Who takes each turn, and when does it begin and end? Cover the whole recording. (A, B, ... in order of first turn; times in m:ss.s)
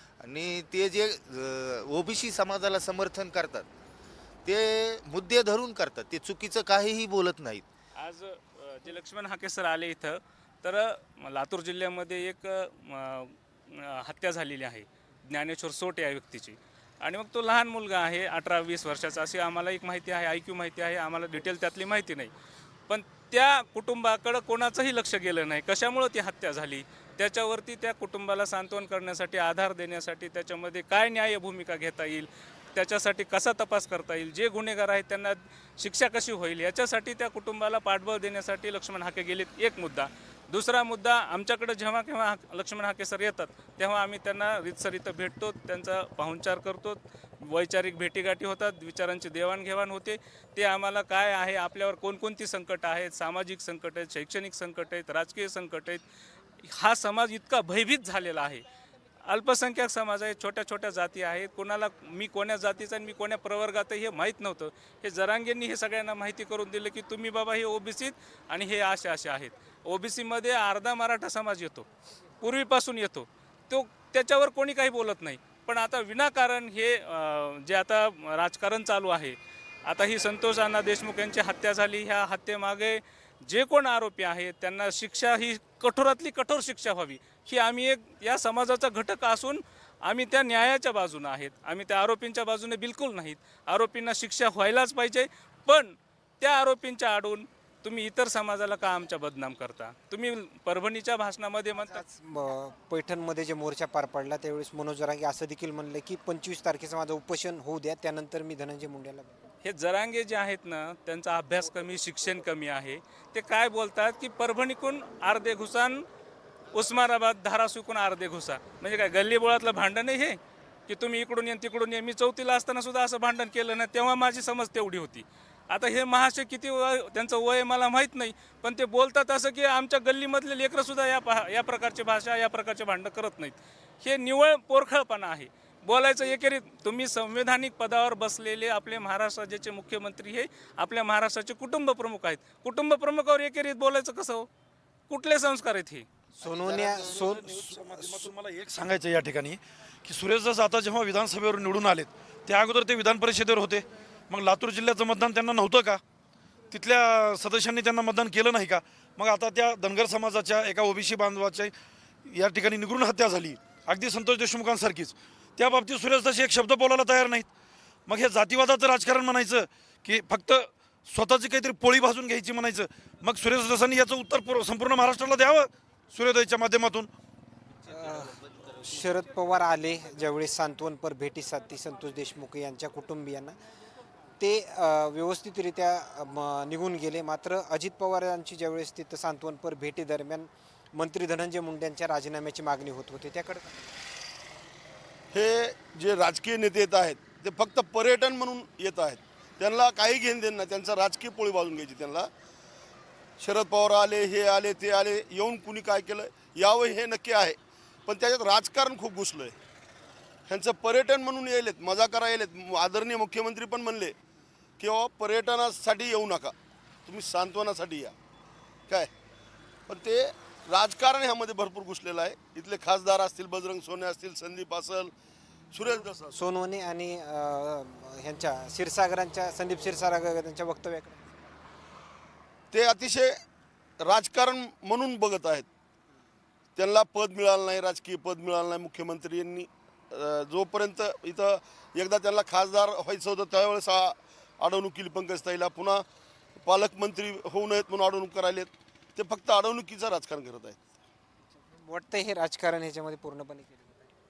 0:00.2-0:03.7 A
0:04.4-0:07.6 A
0:08.0-0:22.3 B
0:22.9-0:56.0 B
0:56.6-0:58.6 B
0:59.3-1:11.9 B
1:12.4-1:42.0 B
1:41.8-1:49.5 C
1:49.6-1:56.0 B
1:56.7-2:24.5 B
2:25.1-2:26.0 B
2:26.4-2:28.3 C
2:26.4-2:36.0 D
2:36.7-2:41.7 D
2:42.3-2:47.5 D
2:48.1-2:57.1 D
2:57.9-3:03.6 C
3:04.4-3:14.0 C
3:15.3-3:22.3 E
3:23.4-3:27.6 E
3:28.1-3:29.5 E
3:30.5-3:34.1 E
3:34.8-3:36.5 E
3:37.1-3:38.1 E
3:39.9-3:45.1 E
3:45.7-3:46.3 E
3:46.3-3:51.5 C
3:52.7-3:53.3 E
3:54.0-3:55.7 E
3:56.8-4:06.0 E
4:06.6-4:10.8 E
4:11.8-4:14.0 C